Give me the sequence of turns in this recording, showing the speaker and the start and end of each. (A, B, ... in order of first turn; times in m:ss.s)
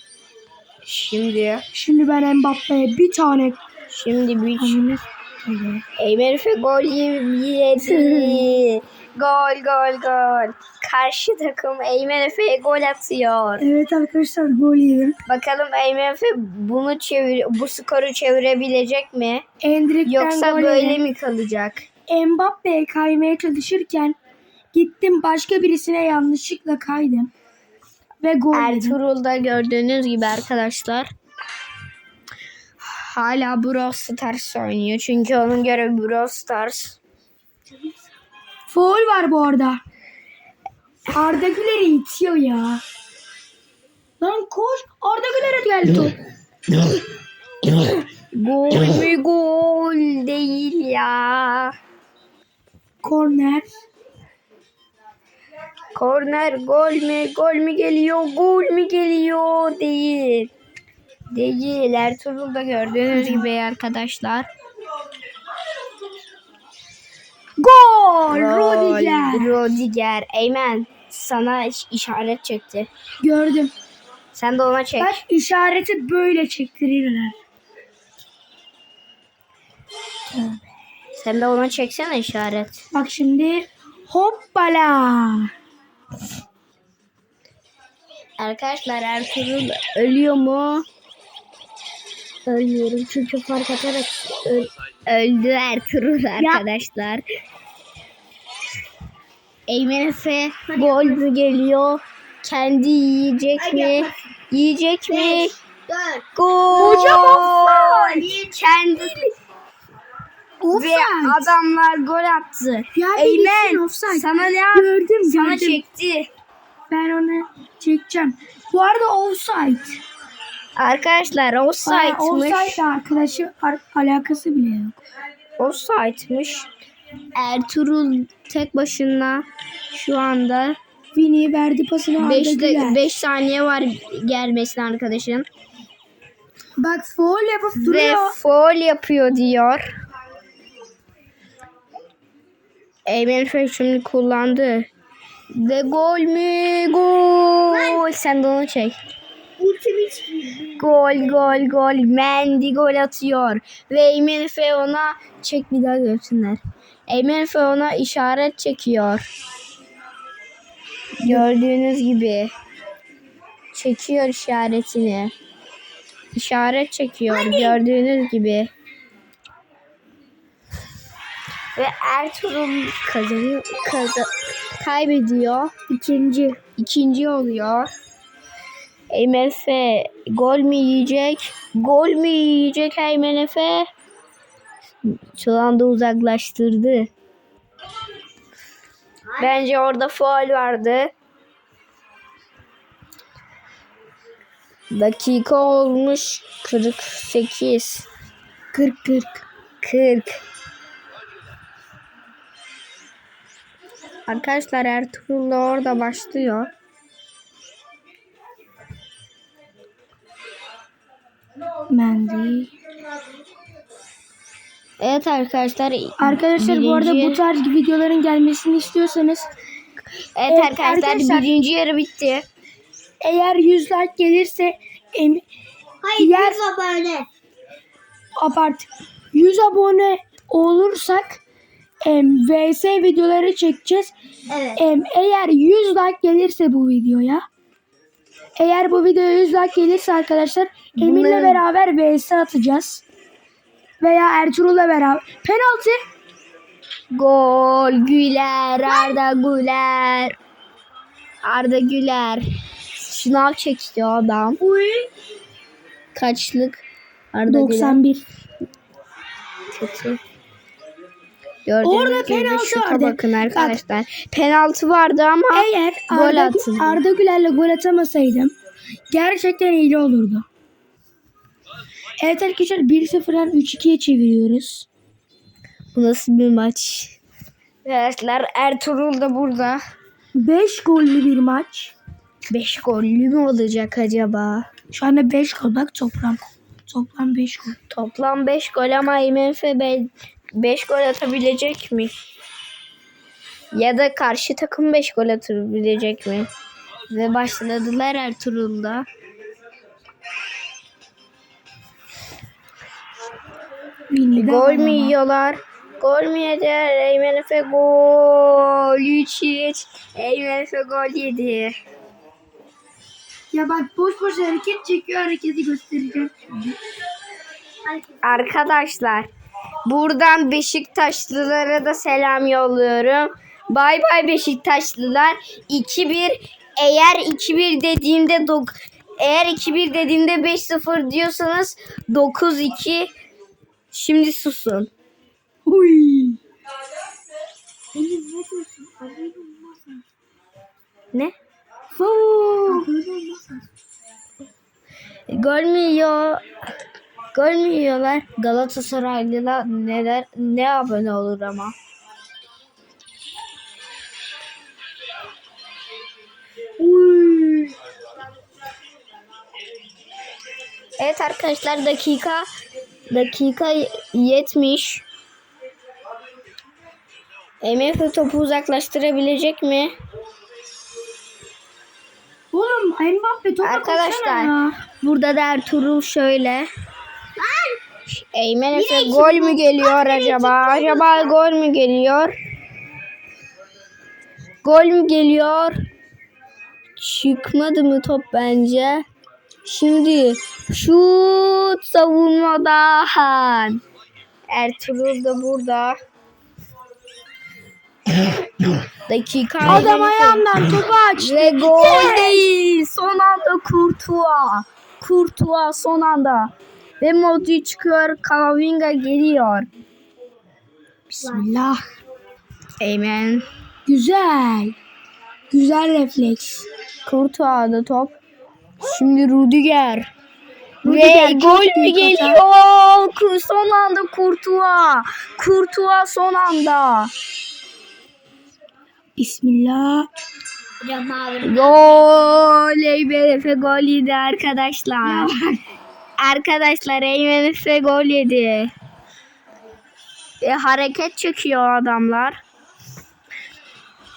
0:00.8-0:01.6 A
0:01.7-0:03.6 B
0:03.9-0:04.8 A
0:04.6-0:05.8 B
0:06.0-0:13.7 A
0:07.8-0:08.5 B
0:13.6-0:15.2 B
0:15.3-0:19.4 A
0:19.6-0:21.0 B
0:20.1-0:21.8 A
0:22.1-0:24.2 B
0:24.7-0:27.3 B
0:28.2-0:29.0 B
0:28.5-0:31.1 A
0:32.8-0:37.0 A
0:38.7-0:39.8 B
0:41.1-0:42.8 B
0:44.2-0:46.2 B
0:48.3-0:51.7 A
0:53.0-0:53.7 B
0:56.0-1:00.5 A
1:01.3-1:04.5 A
1:03.1-1:03.5 B
1:07.6-1:09.6 B
1:08.3-1:12.9 A
1:13.2-1:13.7 B
1:14.3-1:15.2 A
1:15.0-1:17.4 B
1:20.3-1:20.6 B
1:21.2-1:22.8 A
1:22.9-1:25.5 B
1:28.4-1:30.9 A
1:32.5-1:37.2 A
1:36.4-1:36.6 C
1:39.7-1:45.6 A
1:40.7-1:41.2 C
1:43.6-1:44.3 C
1:45.1-1:46.3 C
1:46.4-1:49.3 A
1:46.7-1:48.2 B
1:47.9-1:48.5 C
1:50.6-1:51.5 B
1:50.7-1:56.3 A
1:53.0-1:55.8 B
1:56.9-2:00.0 B
2:00.8-2:02.8 A
2:01.8-2:05.0 B
2:05.6-2:06.7 A
2:07.4-2:10.8 A
2:11.1-2:13.0 B
2:12.2-2:15.5 A
2:16.8-2:18.4 B
2:17.8-2:19.8 A
2:23.1-2:24.9 A
2:25.5-2:29.0 A
2:27.7-2:28.0 C
2:29.6-2:30.9 C
2:30.8-2:39.2 A
2:41.2-2:42.5 A
2:43.7-2:45.3 A
2:46.3-2:48.7 A
2:47.3-2:47.8 C
2:51.8-2:55.7 A
2:55.9-2:56.6 B
2:56.8-2:57.9 A
2:59.1-3:03.9 A
3:05.0-3:07.1 A
3:09.4-3:11.1 A
3:14.9-3:18.1 A
3:18.7-3:19.4 B
3:19.8-3:20.4 A
3:24.3-3:26.7 A
3:31.9-3:32.7 B
3:35.0-3:37.4 A
3:36.2-3:39.5 B
3:40.4-3:42.4 A
3:40.5-3:41.5 B
3:43.2-3:45.4 B
3:46.0-3:47.3 C
3:46.2-3:46.6 B
3:48.4-3:51.4 B
3:52.0-3:54.1 B
3:54.5-3:54.8 C
3:54.8-3:57.4 B
3:58.6-4:03.0 B
4:01.0-4:01.6 A
4:04.0-4:06.0 B
4:07.1-4:10.4 A
4:11.4-4:12.4 A
4:13.0-4:14.6 A
4:14.6-4:15.1 B
4:16.2-4:18.0 A
4:17.5-4:18.2 B
4:19.7-4:20.2 A
4:21.7-4:27.0 A
4:21.8-4:23.8 B
4:25.5-4:28.5 B
4:29.1-4:30.5 B
4:32.2-4:34.9 B
4:35.9-4:37.2 A
4:37.8-4:39.8 A
4:40.4-4:41.9 B
4:42.5-4:44.7 A
4:44.9-4:47.8 B
4:47.9-4:52.1 A
4:53.7-4:56.5 A
4:57.1-4:59.1 A
5:04.1-5:05.2 B
5:04.4-5:11.7 A
5:13.5-5:16.3 B
5:17.8-5:18.6 C
5:18.2-5:19.3 A
5:19.9-5:33.1 A
5:33.9-5:34.9 A
5:35.6-5:36.4 B
5:38.0-5:40.0 C
5:42.0-5:42.9 B
5:42.7-5:43.5 C
5:45.3-5:46.4 A
5:47.3-5:51.8 A
5:56.8-5:57.8 A
6:01.0-6:02.5 A
6:03.1-6:05.0 A
6:07.6-6:09.9 A
6:12.5-6:14.8 B
6:13.6-6:16.7 A
6:17.4-6:17.8 C
6:18.1-6:22.3 A
6:18.7-6:21.4 C
6:24.6-6:25.7 A
6:27.0-6:29.0 A
6:29.6-6:33.8 A
6:34.5-6:36.0 A
6:39.1-6:40.5 A
6:39.6-6:42.4 B
6:41.2-6:49.7 A
6:51.1-6:51.8 B
6:52.8-6:53.5 A
6:53.9-6:54.8 B
6:55.5-6:56.7 B
6:57.1-6:58.2 A
6:58.8-7:00.1 A
7:00.8-7:02.4 B
7:00.8-7:07.1 A
7:09.2-7:10.1 B
7:10.8-7:12.1 C
7:11.4-7:15.3 A
7:15.0-7:15.6 B
7:16.2-7:18.7 A
7:20.4-7:22.4 A